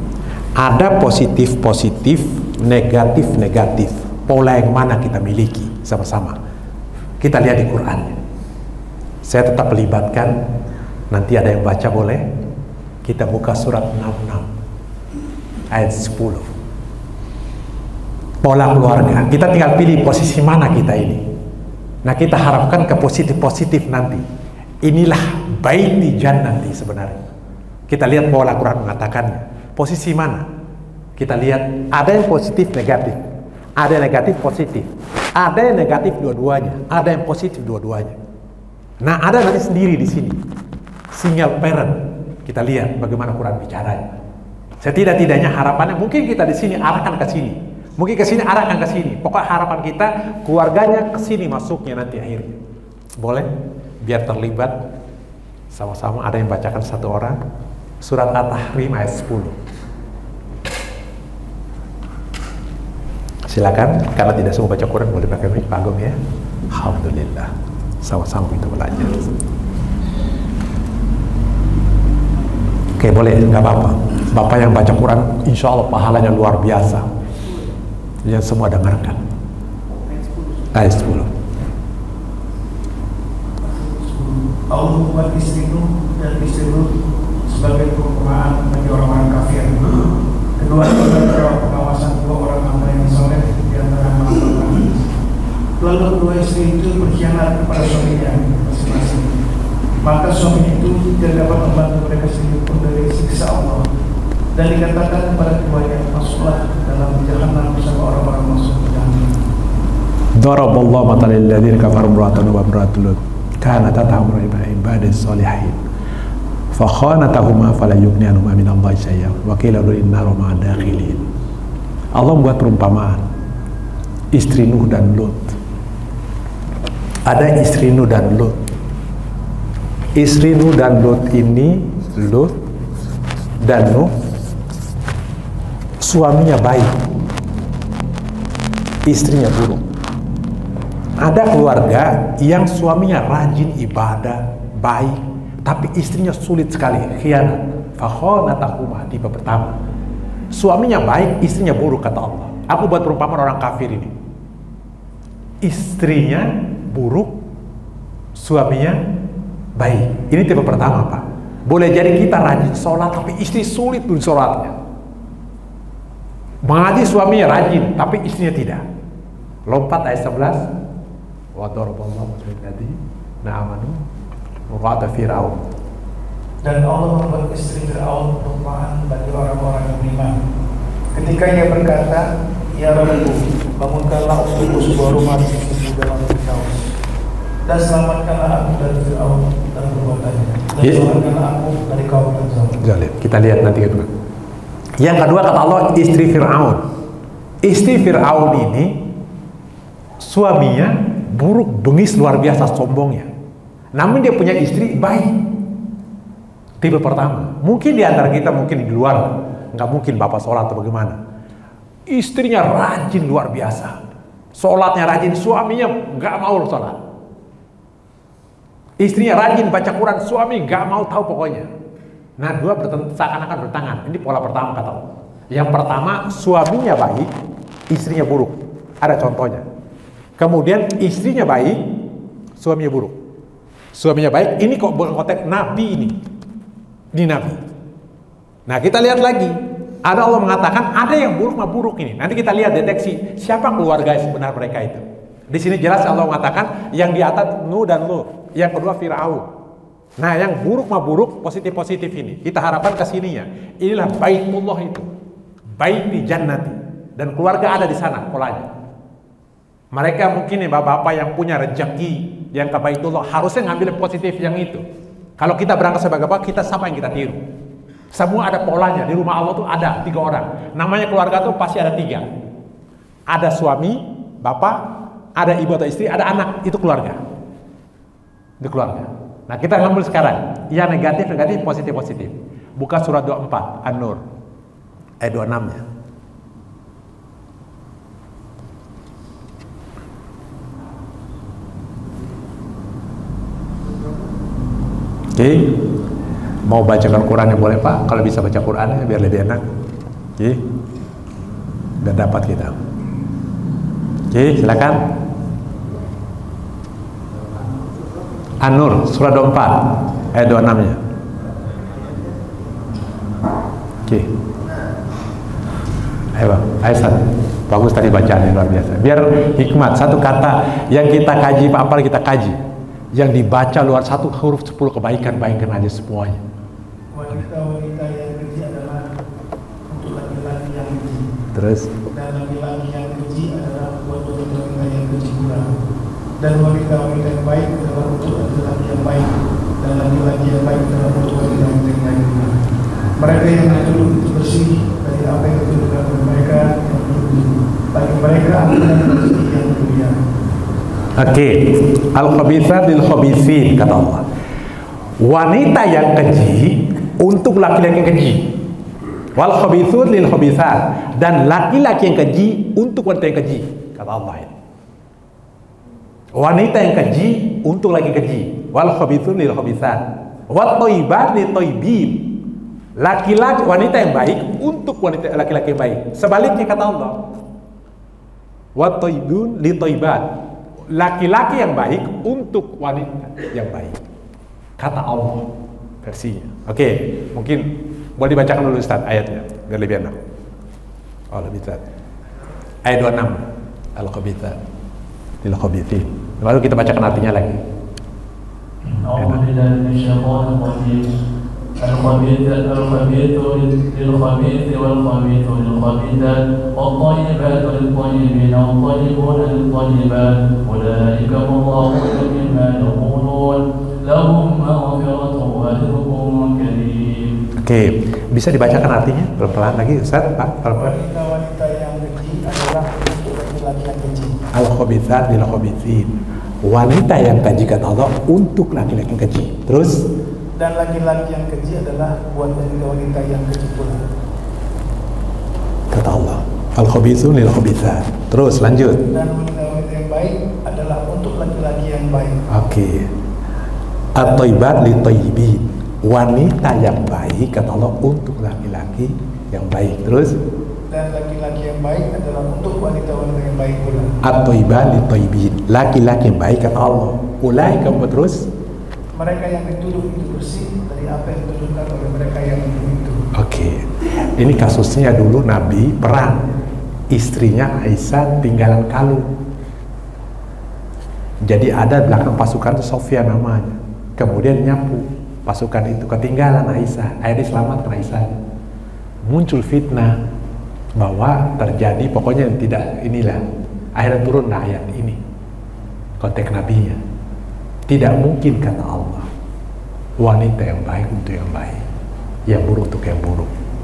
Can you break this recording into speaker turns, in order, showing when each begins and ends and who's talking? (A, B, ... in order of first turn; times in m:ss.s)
0:00.6-0:06.4 A
0:07.2-0:08.1 A
0:09.2-0:10.4 A
0:11.1-0:12.2 A
0:13.0-0:14.5 A
0:15.7-0:16.5 A
0:18.4-0:21.2 A
0:22.0-0:24.2 A
0:24.8-0:27.2 A
0:27.9-0:30.5 A
0:31.2-0:33.2 A
0:33.8-0:38.2 A
0:39.0-0:40.4 A
0:41.1-0:44.1 A
0:44.8-0:52.6 A
0:53.2-0:53.5 A
0:54.0-0:54.8 A
0:55.7-0:57.4 A
0:58.0-0:59.6 A
1:03.5-1:06.2 A
1:06.7-1:09.3 A
1:13.0-1:17.1 A
1:18.2-1:19.2 A
1:20.7-1:21.3 A
1:23.7-1:26.9 B
1:27.4-1:29.9 B
1:30.6-1:35.1 B
1:35.8-1:39.3 B
1:40.0-1:43.8 B
1:44.5-1:49.3 B
1:50.4-1:55.8 A
1:56.7-2:01.2 A
2:02.1-2:03.2 A
2:04.3-2:05.6 A
2:07.2-2:08.6 A
2:10.1-2:12.5 A
2:13.6-2:14.1 A
2:16.0-2:16.9 A
2:19.0-2:19.8 A
2:21.2-2:29.8 A
2:30.5-2:34.1 A
2:35.6-2:37.4 A
2:38.3-2:39.0 A
2:39.8-2:44.7 A
2:46.6-2:48.8 A
2:49.7-2:50.7 A
2:51.5-2:54.0 A
2:54.7-2:55.6 A
2:56.6-3:00.4 B
3:01.1-3:06.8 B
3:07.6-3:12.8 B
3:12.8-3:14.1 A
3:15.0-3:16.8 A
3:17.6-3:19.0 A
3:20.2-3:23.3 A
3:23.9-3:25.3 A
3:26.8-3:31.2 A
3:32.1-3:34.0 A
3:34.5-3:37.0 A
3:39.0-3:41.7 A
3:42.4-3:47.3 A
3:47.9-3:49.6 A
3:50.4-3:51.8 A
3:52.6-3:53.2 A
3:53.9-3:56.2 A
3:57.1-3:57.6 A
3:58.7-4:09.5 A
4:10.2-4:15.1 A
4:15.8-4:18.7 A
4:19.9-4:24.8 A
4:25.4-4:27.4 A
4:28.1-4:32.2 A
4:33.3-4:34.8 A
4:35.4-4:37.2 A
4:38.6-4:44.2 A
4:45.2-4:45.8 A
4:55.3-4:55.7 A
4:56.6-4:59.6 A
5:02.0-5:02.7 A
5:04.3-5:05.0 A
5:08.6-5:11.0 A
5:14.1-5:14.3 A
5:16.3-5:22.6 A
5:23.1-5:26.4 A
5:27.1-5:29.0 B
5:29.9-5:31.2 B
5:31.5-5:31.9 A
5:32.1-5:35.7 B
5:36.4-5:39.3 B
5:39.8-5:42.5 B
5:43.2-5:50.2 B
5:51.1-5:54.2 A
5:55.2-5:58.5 A
5:59.4-6:04.5 A
6:06.3-6:12.3 A
6:13.0-6:17.2 A
6:18.8-6:20.3 A
6:20.9-6:24.0 A
6:24.8-6:25.5 A
6:26.0-6:30.2 A
6:31.3-6:31.8 A
6:32.8-6:33.4 A
6:34.0-6:34.6 A
6:35.4-6:37.6 A
6:38.9-6:41.1 C
6:39.2-6:39.4 A
6:41.8-6:57.3 C
6:57.6-7:00.9 A
7:00.7-7:04.4 B
7:04.5-7:06.1 A
7:06.6-7:10.0 A
7:10.6-7:14.0 B
7:15.9-7:19.0 A
7:19.1-7:22.4 B
7:22.5-7:23.1 A
7:24.1-7:30.4 A
7:30.9-7:34.1 B
7:34.2-7:38.5 A
7:39.1-7:43.2 B
7:43.3-7:46.4 A
7:47.1-7:49.3 A
7:51.4-7:58.3 A
7:59.3-8:00.2 A
8:01.0-8:03.4 A
8:04.0-8:05.2 A
8:06.2-8:07.0 A
8:07.9-8:09.3 A
8:10.2-8:11.8 A
8:12.5-8:13.5 A